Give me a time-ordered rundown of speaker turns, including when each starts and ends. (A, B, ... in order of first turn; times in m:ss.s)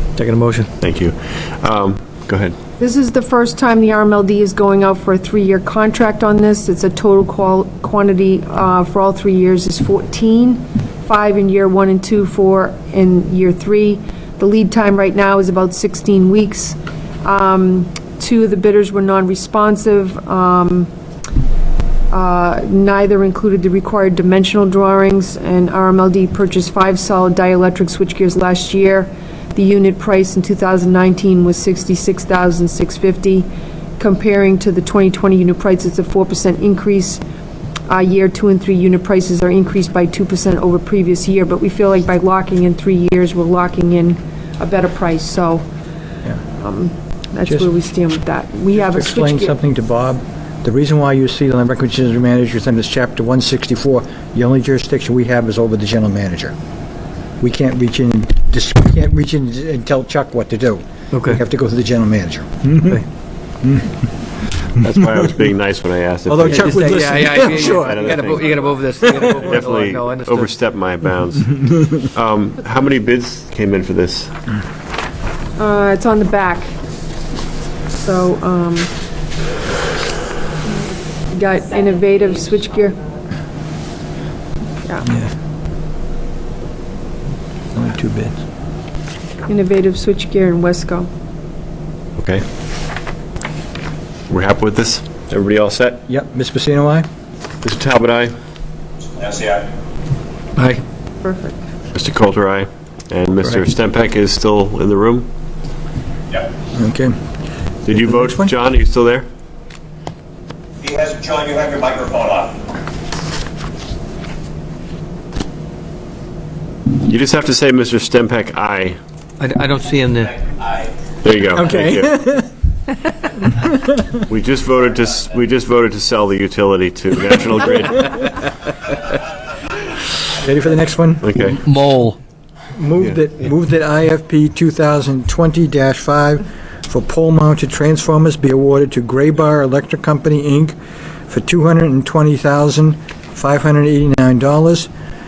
0:00.2-0:00.7 A
0:00.8-0:02.6 B
0:02.8-0:20.9 C
0:22.1-0:33.5 C
0:34.0-0:37.2 C
0:37.9-0:45.6 C
0:46.6-0:49.6 C
0:48.7-0:56.6 D
0:57.4-1:03.0 D
1:01.1-1:01.4 A
1:03.6-1:03.9 D
1:04.8-1:14.3 B
1:06.3-1:08.2 D
1:06.4-1:10.5 A
1:09.0-1:09.3 D
1:15.6-1:16.7 C
1:17.9-1:18.9 C
1:21.3-1:23.0 C
1:25.0-1:25.3 D
1:27.7-1:28.4 D
1:29.5-1:31.1 C
1:32.2-1:32.4 B
1:34.3-1:36.0 B
1:36.1-1:37.1 D
1:37.6-1:38.3 B
1:39.2-1:39.7 E
1:40.6-1:40.8 A
1:41.2-1:41.6 C
1:41.9-1:45.3 B
1:46.7-1:47.1 D
1:47.9-1:48.5 D
1:47.9-1:49.2 B
1:50.8-1:52.6 E
1:56.9-1:59.0 B
1:59.4-2:00.4 A
2:00.5-2:00.9 E
2:01.2-2:02.1 B
2:01.5-2:02.5 D
2:03.6-2:04.2 D
2:04.3-2:08.2 B
2:10.4-2:11.6 D
2:11.2-2:11.6 B
2:11.6-2:12.2 A
2:12.8-2:20.8 D
2:21.3-2:24.9 D